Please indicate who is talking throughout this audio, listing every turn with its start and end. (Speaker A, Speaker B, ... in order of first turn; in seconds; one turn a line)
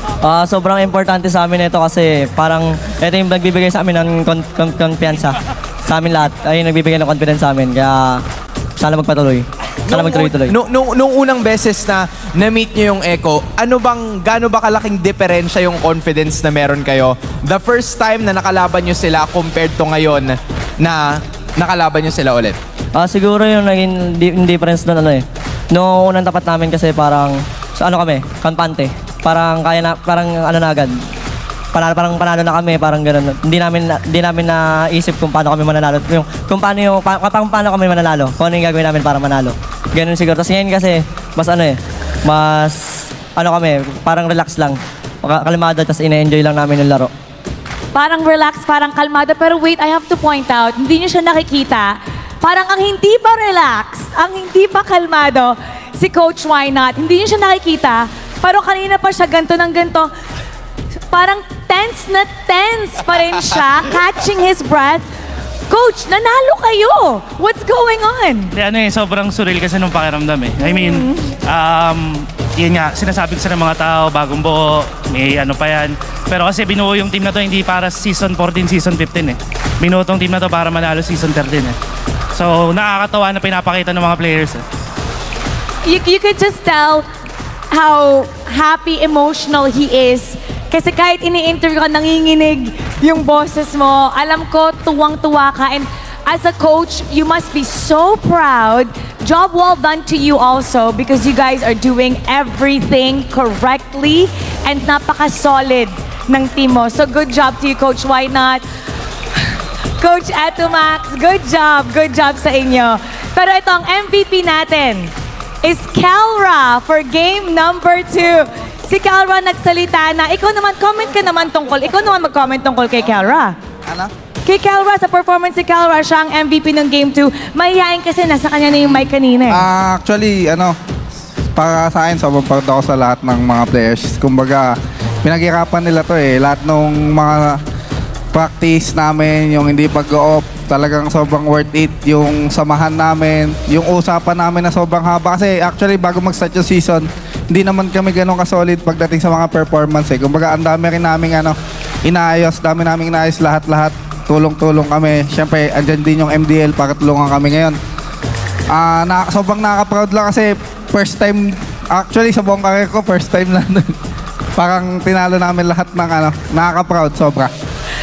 Speaker A: 0.2-8.2
Speaker A: 8.8-10.5
Speaker B: 9.9-21.1
Speaker B: 21.6-22.6
Speaker A: 22.9-30.9
Speaker A: 31.7-47.1
Speaker C: 47.9-60.1
Speaker C: 61.1-65.0
Speaker C: 65.7-68.5
Speaker D: 68.5-81.8
Speaker C: 70.6-71.2
Speaker D: 82.3-84.6
Speaker C: 85.8-87.0
Speaker C: 87.7-108.6
Speaker C: 110.0-123.5
Speaker C: 124.4-129.6
Speaker E: 129.5-130.8
Speaker E: 131.5-137.6
Speaker E: 138.3-157.8
Speaker E: 158.7-163.9
Speaker E: 164.6-167.5